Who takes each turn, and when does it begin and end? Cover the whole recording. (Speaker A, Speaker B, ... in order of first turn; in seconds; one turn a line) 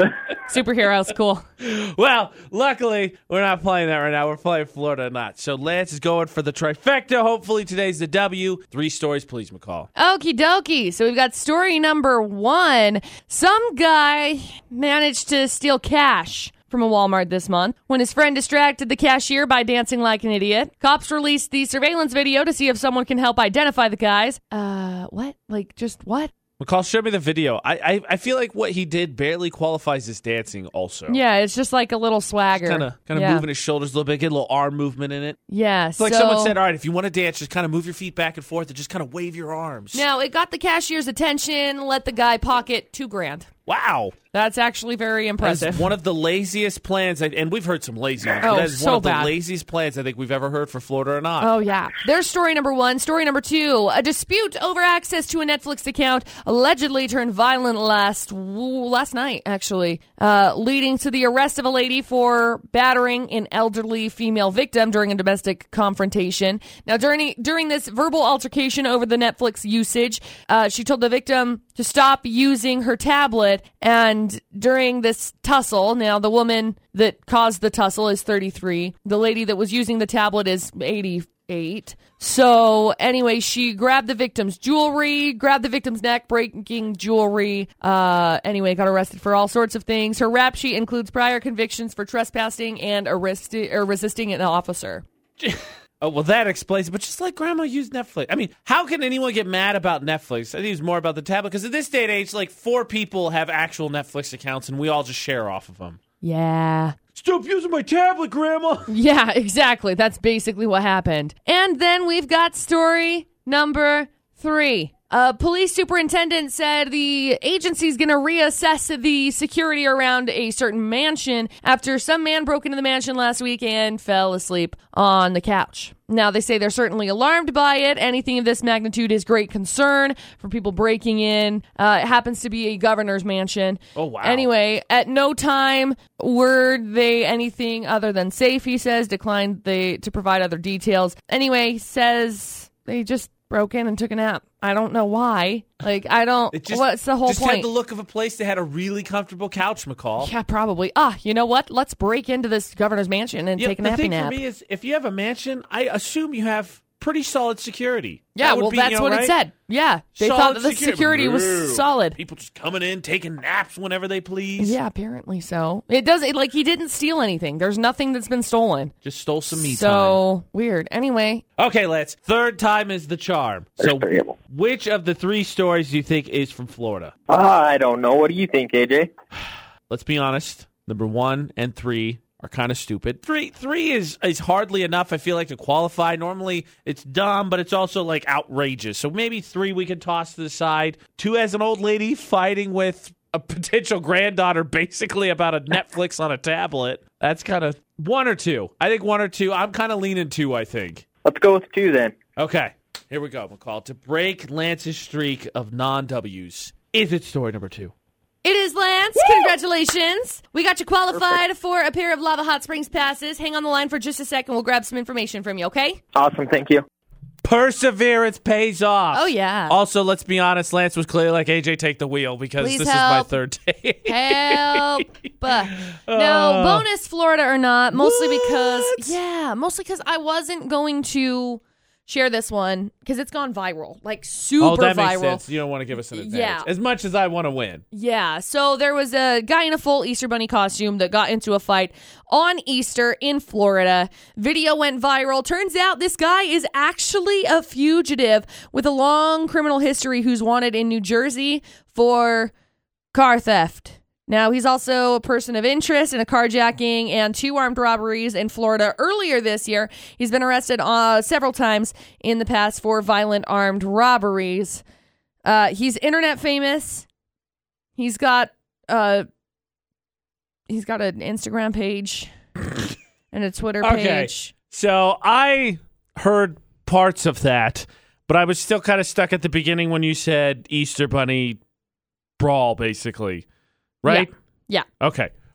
Speaker A: 0.4-1.4
Speaker B: 1.6-9.9
Speaker A: 10.0-26.3
Speaker B: 26.6-31.2
Speaker A: 31.1-33.5
Speaker B: 32.5-35.4
Speaker A: 35.5-36.6
Speaker B: 36.0-40.1
Speaker A: 39.9-43.5
Speaker B: 43.7-44.2
Speaker A: 44.3-45.9
Speaker B: 45.4-51.5
Speaker A: 48.4-49.3
Speaker A: 51.4-95.0
Speaker B: 95.4-106.0
Speaker A: 106.2-107.0
Speaker B: 107.1-108.9
Speaker A: 108.9-147.7
Speaker B: 133.9-134.5
Speaker B: 146.5-150.3
Speaker A: 150.2-154.4
Speaker B: 153.6-159.3
Speaker A: 158.3-162.2
Speaker B: 160.2-164.8
Speaker A: 164.6-168.9
Speaker B: 169.0-170.2
Speaker A: 169.5-171.4
Speaker B: 171.6-177.1
Speaker C: 174.0-174.3
Speaker C: 177.3-179.1
Speaker B: 179.9-201.0
Speaker C: 201.2-202.1
Speaker B: 202.3-207.9
Speaker A: 208.4-216.0
Speaker C: 216.2-216.8
Speaker B: 217.4-226.9
Speaker A: 219.1-219.8
Speaker A: 222.6-223.3
Speaker A: 224.0-235.4
Speaker B: 227.9-229.2
Speaker B: 234.6-237.8
Speaker A: 236.1-236.7
Speaker A: 237.9-252.5
Speaker A: 253.1-264.8
Speaker A: 265.4-267.1
Speaker A: 268.0-269.2
Speaker A: 270.7-272.3
Speaker A: 273.3-274.5
Speaker B: 273.8-281.6
Speaker B: 282.4-283.5
Speaker B: 284.0-284.3
Speaker A: 284.0-284.9
Speaker B: 285.0-285.3